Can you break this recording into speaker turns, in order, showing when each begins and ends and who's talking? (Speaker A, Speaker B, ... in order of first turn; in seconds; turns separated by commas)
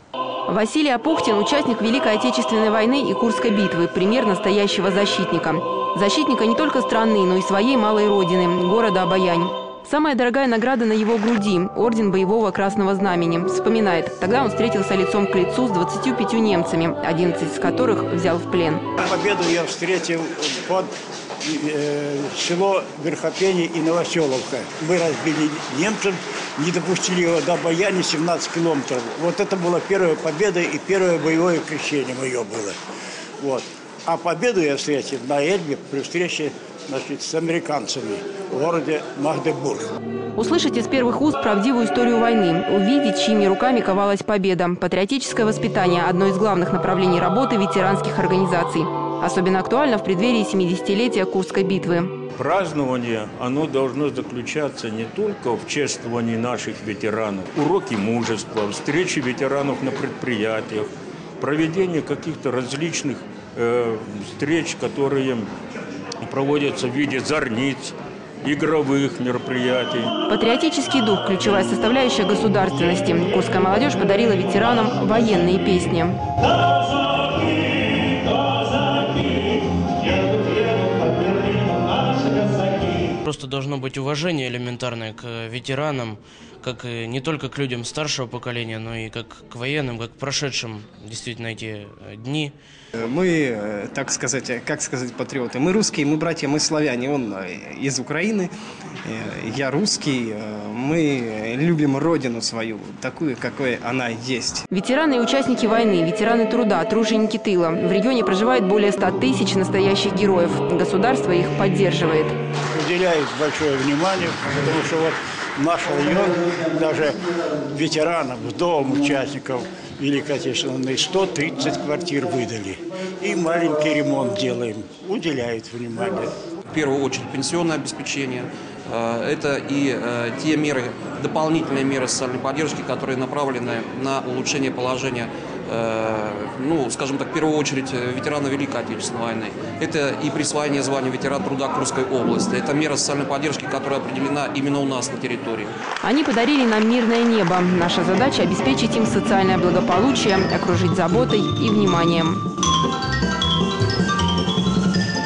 Speaker A: 0.5-18.9, Speaker B: 19.0-32.8, Speaker B: 33.4-39.9, Speaker A: 40.4-52.1, Speaker C: 52.4-60.9, Speaker C: 61.4-65.5, Speaker C: 66.2-70.1, Speaker A: 70.3-76.2, Speaker D: 83.2-92.5, Speaker E: 93.0-98.5, Speaker E: 99.0-104.7, Speaker A: 104.7-112.3, Speaker B: 112.7-126.3, Speaker F: 126.7-145.7, Speaker A: 146.0-152.4